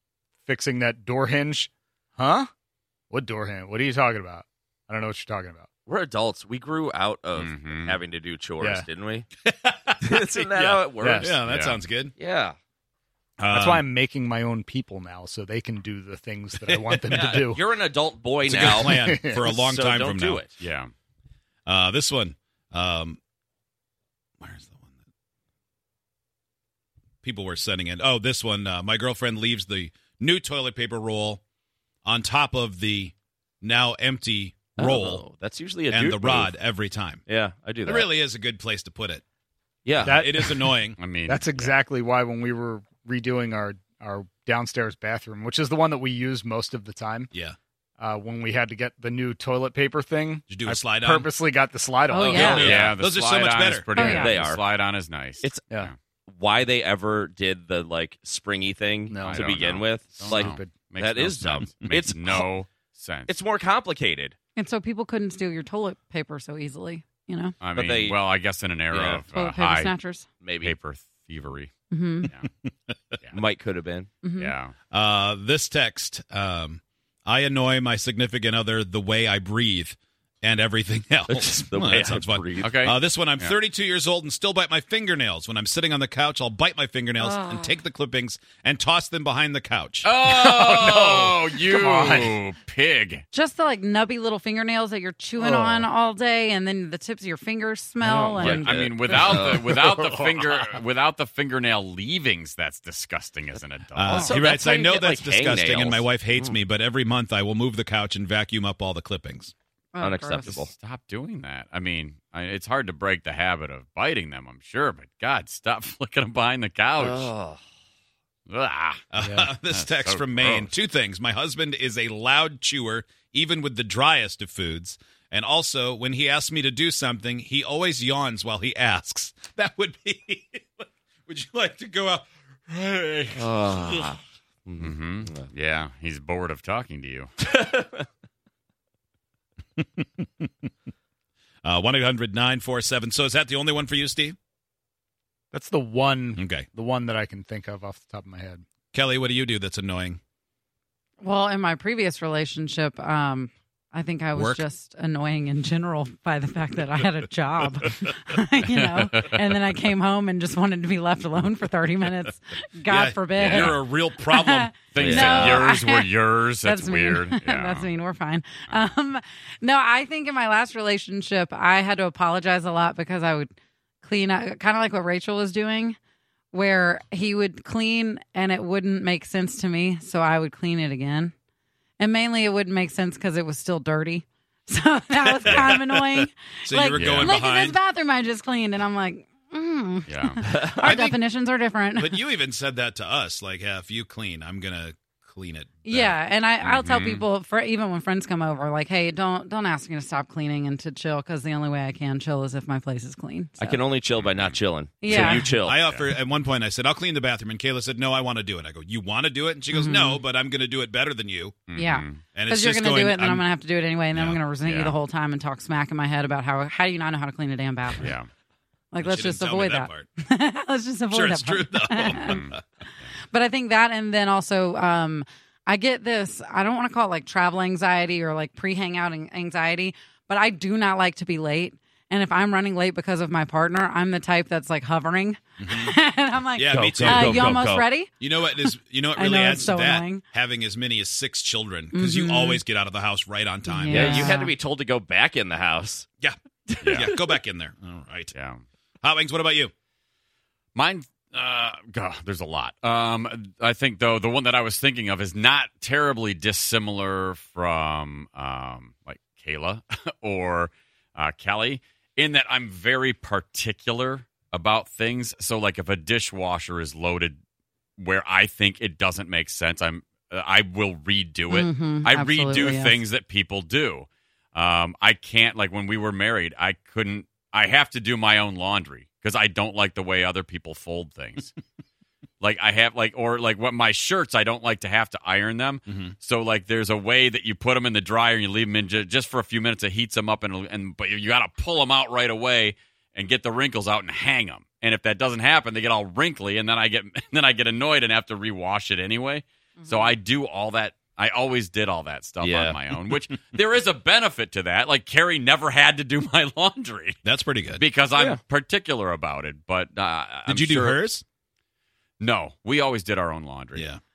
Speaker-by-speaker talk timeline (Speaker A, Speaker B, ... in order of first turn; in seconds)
Speaker A: 0.5-2.5, 3.1-5.7, 8.6-8.9, 10.5-11.3, 13.5-17.6, 18.9-19.4, 40.0-40.8, 41.3-47.3, 48.0-52.9, 59.1-60.9, 90.2-92.4, 119.2-119.5, 145.5-148.6
Speaker B: 5.8-9.3, 10.0-11.2, 12.1-12.6, 17.1-20.6, 34.8-36.5, 37.2-38.1, 39.8-40.6, 54.0-54.6, 55.4-55.7, 56.3-62.5, 63.3-64.3, 67.7-68.2, 68.9-69.2, 70.4-70.7, 73.3-74.1, 81.3-82.7, 95.4-95.9, 98.0-100.0, 104.0-106.4, 110.0-110.7, 117.0-117.6, 133.3-135.5, 137.5-138.0, 165.0-165.6, 190.4-190.8, 203.6-205.8, 236.7-237.8, 243.9-246.1, 302.4-302.8
Speaker C: 7.3-8.0, 11.3-11.8, 20.6-20.9, 41.0-41.7, 52.3-56.0, 59.2-63.3, 67.6-69.9, 70.6-71.7, 74.4-74.7, 82.6-83.5, 90.0-93.2, 98.4-104.4, 110.7-117.3, 118.5-119.0, 119.7-120.7, 134.8-137.3, 158.8-159.3, 163.4-163.8, 164.9-167.9, 185.4-185.7, 186.9-187.3, 190.1-190.4, 196.6-197.2, 204.1-206.1, 211.7-212.2, 214.4-214.9, 218.0-218.3, 222.1-223.1, 246.8-247.1, 248.3-248.6, 250.7-267.4, 268.0-281.5, 282.4-307.2, 307.7-311.1, 312.2-313.9
Speaker D: 9.4-10.4, 11.1-12.1, 13.4-13.8, 16.9-17.2, 18.4-20.4, 21.6-23.2, 24.4-24.9, 27.2-31.4, 32.0-35.2, 35.9-37.2, 37.8-39.2, 40.0-41.0, 47.3-47.6, 50.5-51.3, 52.3-53.9, 74.9-90.1, 104.0-109.5, 119.1-134.0, 139.8-140.5, 141.6-144.3, 146.3-146.7, 148.9-150.2, 154.3-154.6, 162.9-164.7, 185.2-187.8, 190.8-191.2, 191.9-196.2, 205.1-211.6, 212.3-213.4, 219.0-220.1, 221.1-222.6, 235.6-235.9, 236.5-244.4, 246.2-248.3, 249.0-249.7, 285.9-286.1, 307.2-307.8, 310.5-311.2, 313.7-314.0
Speaker E: 52.1-52.7, 53.9-54.3, 64.5-67.5, 69.3-70.3, 71.9-72.3, 74.2-74.5, 87.2-87.7, 93.3-99.6, 109.9-110.6, 151.2-173.5, 174.0-176.0, 176.5-181.3, 182.0-192.2, 195.8-203.8, 205.0-205.5, 209.7-210.2, 211.8-218.1, 218.9-222.4, 223.3-240.2, 241.9-242.6, 243.7-244.5, 271.5-273.0, 299.8-300.1